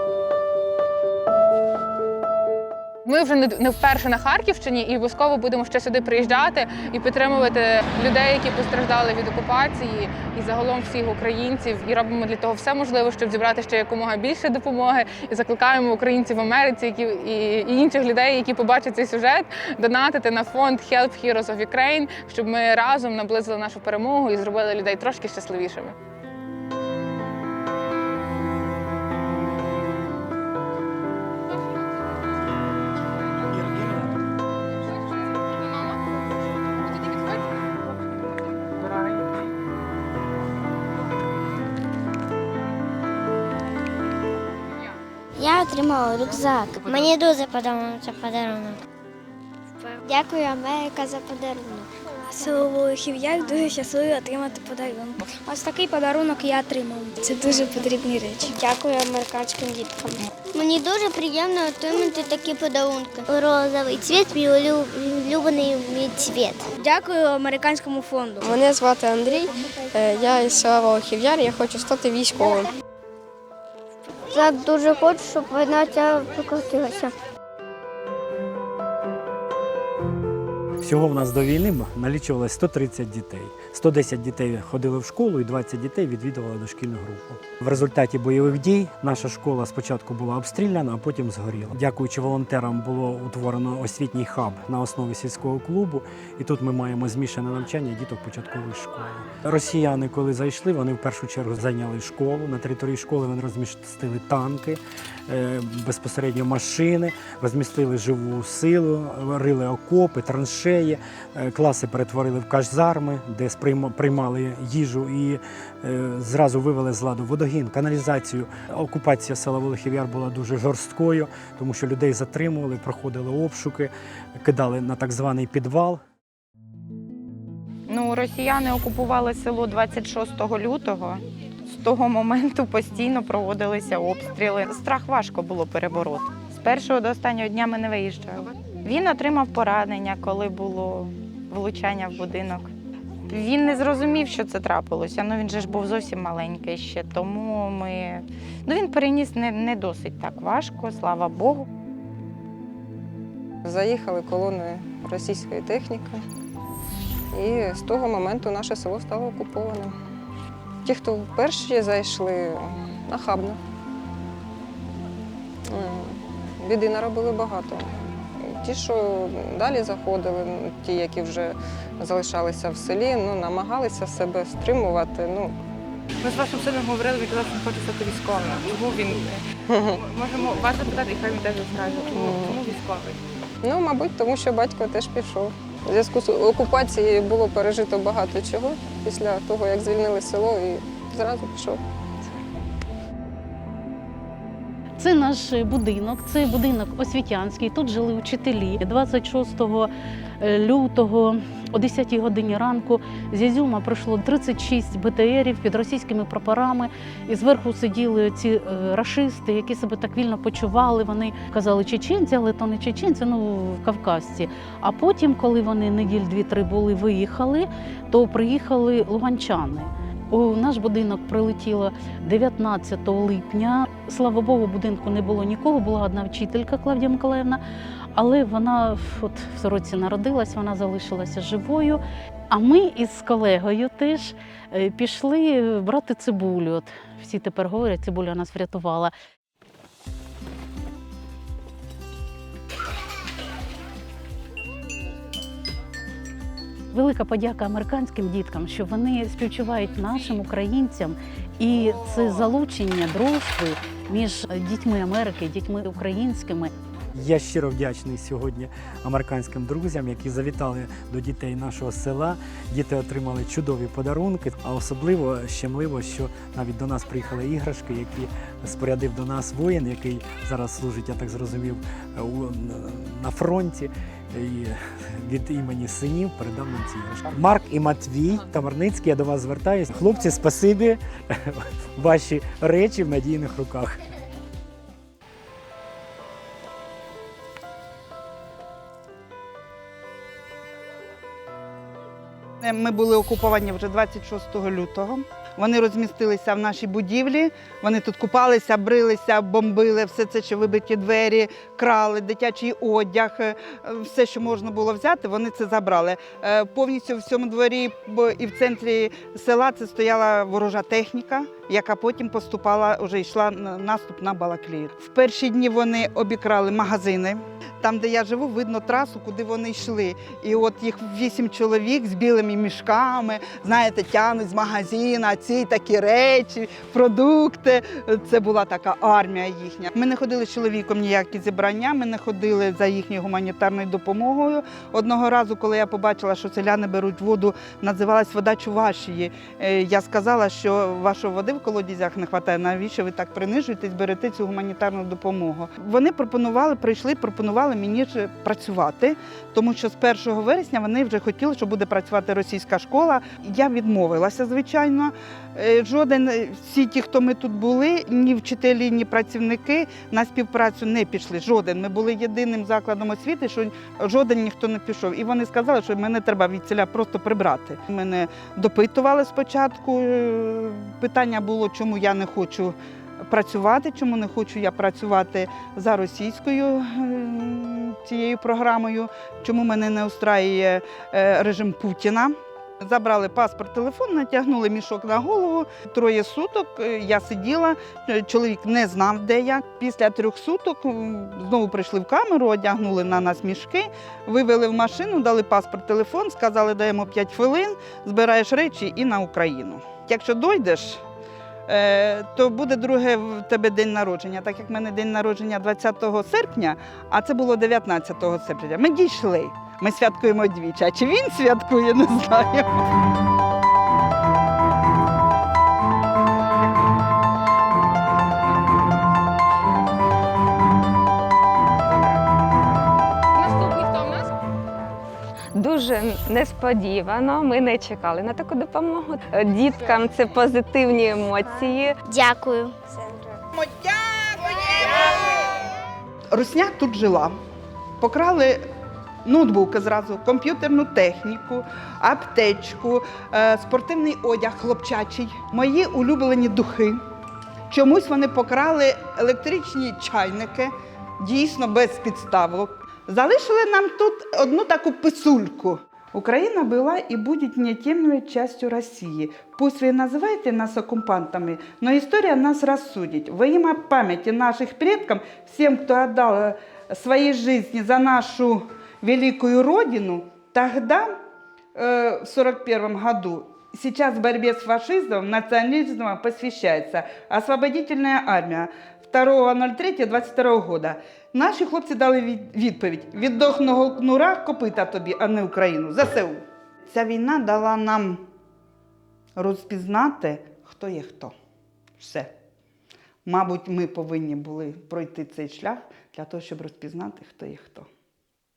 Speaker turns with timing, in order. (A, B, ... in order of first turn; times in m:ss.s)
0:03.1-0:26.0 A
0:45.5-0:47.1 B
0:46.8-0:48.8 C
0:52.3-1:00.1 D
1:00.6-1:06.6 C
1:06.8-1:08.4 D
1:08.4-1:12.7 E
1:14.3-1:17.0 C
1:20.8-2:06.0 F
2:07.9-2:22.7 B
2:23.3-2:31.7 B
2:33.6-2:36.2 G
2:37.3-2:40.0 G
2:40.8-2:43.6 G
2:45.7-2:47.9 G
2:48.4-2:55.6 G
2:56.2-3:03.2 H
2:59.7-3:00.0 G
3:02.2-3:02.6 G
3:03.6-3:11.8 G
3:15.0-3:47.6 I
3:48.1-3:59.1 I
4:06.9-4:16.7 I
4:17.2-4:44.0 F
4:52.6-6:41.0 J
6:41.7-6:52.8 J
7:03.4-7:04.3 A
7:05.5-7:12.0 K
7:13.6-7:15.7 J
7:16.3-7:17.4 J
7:18.0-7:18.6 J
7:19.2-7:27.0 J
7:27.7-7:51.1 J
7:51.8-8:08.2 J
8:09.4-8:11.3 J
8:12.0-8:12.3 J
8:13.2-8:17.9 J